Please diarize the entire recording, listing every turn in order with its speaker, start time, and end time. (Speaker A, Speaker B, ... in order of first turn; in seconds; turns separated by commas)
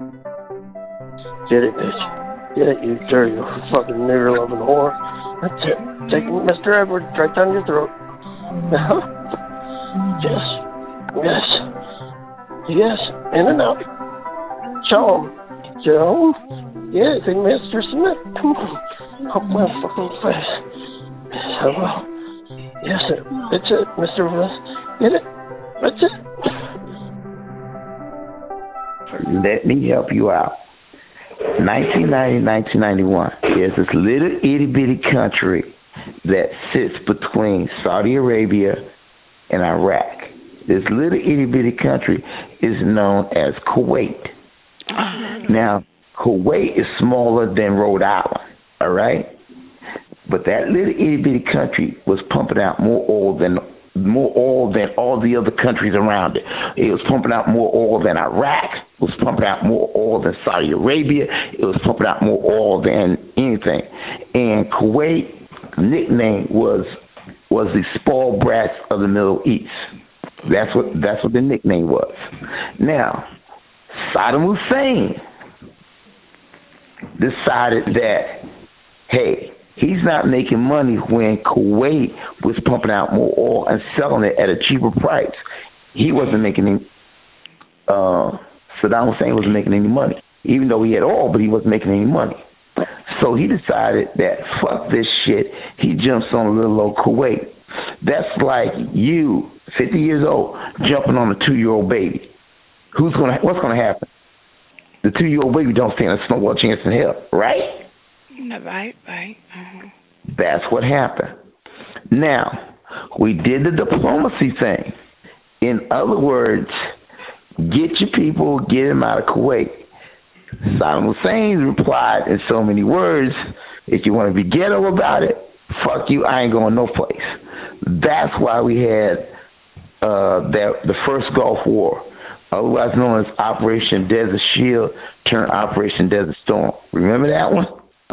Speaker A: 1.5-7.9, Speaker A: 8.7-9.1, Speaker A: 10.2-10.6, Speaker A: 11.1-11.6, Speaker A: 12.7-13.8, Speaker A: 14.8-16.4, Speaker A: 16.9-20.6, Speaker A: 21.3-22.0, Speaker A: 22.8-25.2, Speaker A: 25.8-26.2, Speaker B: 29.2-30.6, Speaker B: 31.6-38.9, Speaker B: 39.5-44.3, Speaker C: 44.9-45.6, Speaker B: 45.5-49.3, Speaker B: 50.3-67.0, Speaker B: 67.5-69.9, Speaker B: 70.4-73.3, Speaker B: 73.9-75.2, Speaker B: 77.2-78.4, Speaker B: 79.1-85.4, Speaker B: 85.9-86.9, Speaker B: 87.9-92.4, Speaker B: 93.1-102.3, Speaker B: 102.9-104.1, Speaker B: 105.0-107.8, Speaker C: 108.4-109.9, Speaker B: 110.3-111.3, Speaker B: 112.1-114.9, Speaker B: 115.6-116.7, Speaker B: 117.6-119.8, Speaker B: 120.6-129.3, Speaker B: 130.0-137.8